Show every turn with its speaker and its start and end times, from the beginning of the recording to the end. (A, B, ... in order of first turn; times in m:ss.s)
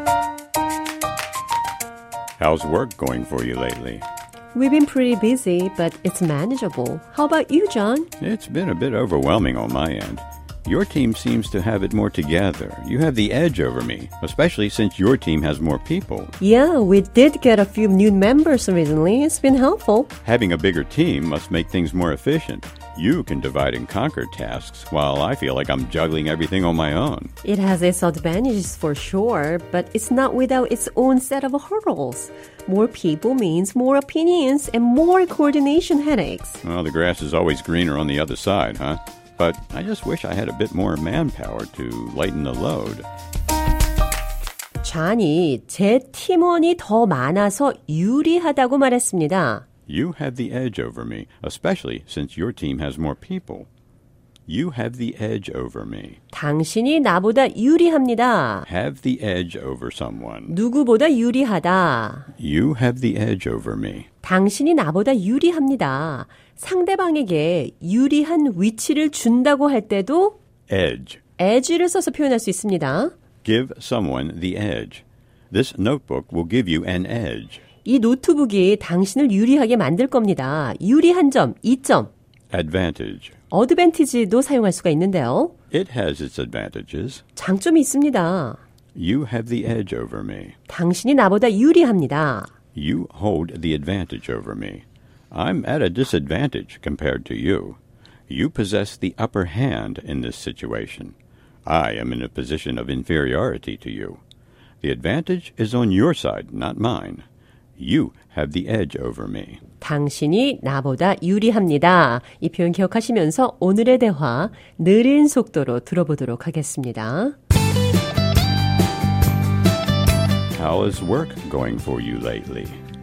0:02.4-0:04.0 A
0:04.5-0:08.1 B
0:08.2-0:16.3 A
0:16.4-0:20.1 B
0:20.2-0:27.3 A
0:27.4-0:36.6 B
0:36.6-0:43.1 A
0:44.8-0:49.6 B
0:49.9-0:53.7 A
0:54.5-0:56.2 A
0:56.3-0:58.7 B
0:58.7-1:00.5 A
1:00.5-1:02.3 B
1:02.4-1:04.1 A
1:04.2-1:10.4 B
1:10.7-1:11.2 A
1:11.4-1:13.1 B
1:13.4-1:17.6 A
1:17.8-1:22.1 B
1:22.5-1:23.3 A
1:23.5-1:25.5 B
1:25.7-1:27.2 A
1:27.4-1:28.6 B
1:28.9-1:30.6 A
1:30.7-1:32.5 B
1:32.7-1:41.1 A
1:41.6-1:44.2 A
1:44.8-1:47.2 A
1:47.8-1:49.6 A
1:49.8-1:57.4 B
2:00.5-2:02.8 A